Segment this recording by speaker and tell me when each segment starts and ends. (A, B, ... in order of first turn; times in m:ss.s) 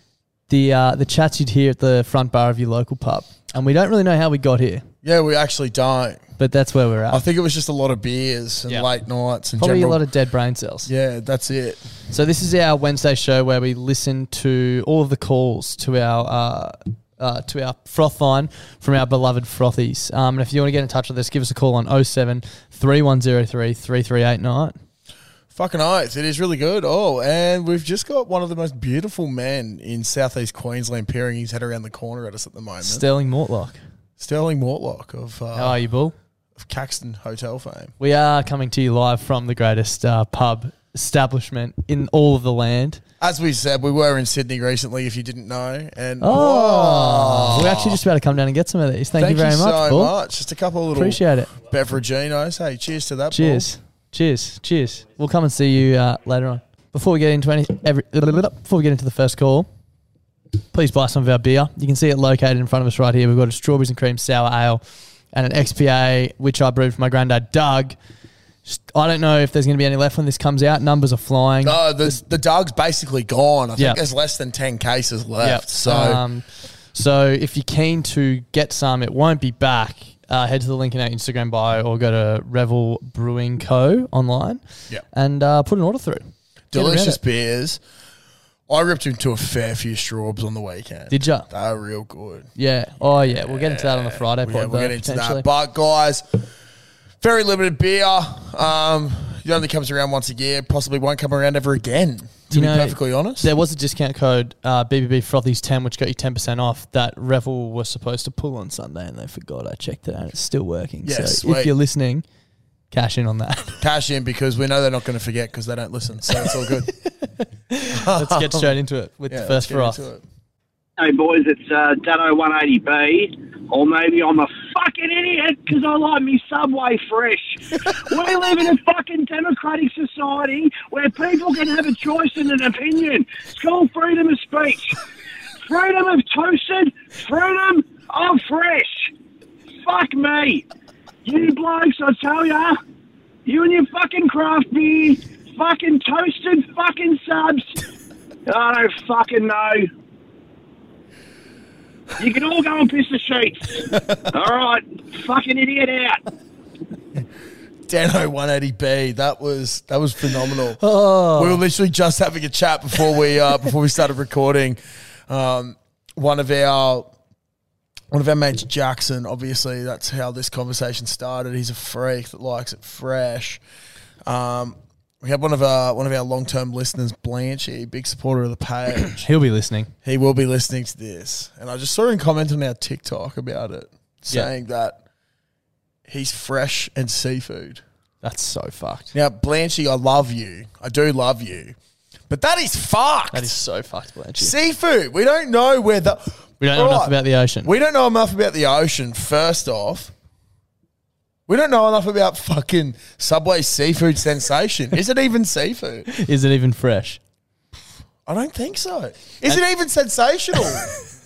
0:00.5-0:04.9 A
0:05.0-0:06.3 B
0:06.4-0:07.2 A
0:07.1-0:10.0 B
0:09.6-0:10.9 A
0:10.9-0:11.9 B
0:12.1-0:24.8 A
0:25.5-0:33.0 B
0:32.8-0:33.8 A
0:34.2-0:35.8 B
0:35.6-0:36.2 A
0:36.6-0:37.9 B
0:38.0-0:43.0 A
0:43.2-0:48.0 B
0:46.2-0:50.1 A
0:49.2-0:53.7 B
0:50.9-0:51.5 A
0:53.3-0:59.7 A
1:00.7-1:04.8 A
1:05.3-1:08.0 A
1:08.7-1:12.2 A
1:11.6-1:16.2 B
1:15.4-1:27.2 A
1:26.7-1:27.8 B
1:28.7-1:32.5 B
1:31.1-1:31.5 A
1:32.6-1:35.5 A
1:33.0-1:36.5 B
1:37.2-1:43.5 B
1:42.5-1:52.2 A
1:51.0-1:51.7 B
1:52.9-1:53.8 A
1:53.8-1:56.9 B
1:57.3-2:00.0 A
1:57.9-1:58.7 B
1:59.3-2:00.2 B
2:01.0-2:15.0 C
2:15.6-2:19.1 C
2:19.8-2:20.6 C
2:21.2-2:22.8 C
2:23.5-2:27.8 C
2:28.5-2:29.9 C
2:32.2-2:36.2 C
2:37.9-2:40.8 B
2:40.8-2:41.6 A
2:41.3-2:47.1 B
2:48.1-2:53.6 B
2:54.3-2:59.3 B
2:59.2-2:59.9 A
3:00.0-3:05.0 B
3:06.1-3:07.8 B
3:08.2-3:09.1 A
3:09.1-3:11.8 B
3:12.3-3:13.6 B
3:13.3-3:14.5 A
3:14.4-3:20.1 B
3:16.6-3:17.7 A
3:21.5-3:26.1 B
3:26.1-3:27.2 A
3:28.3-3:30.9 B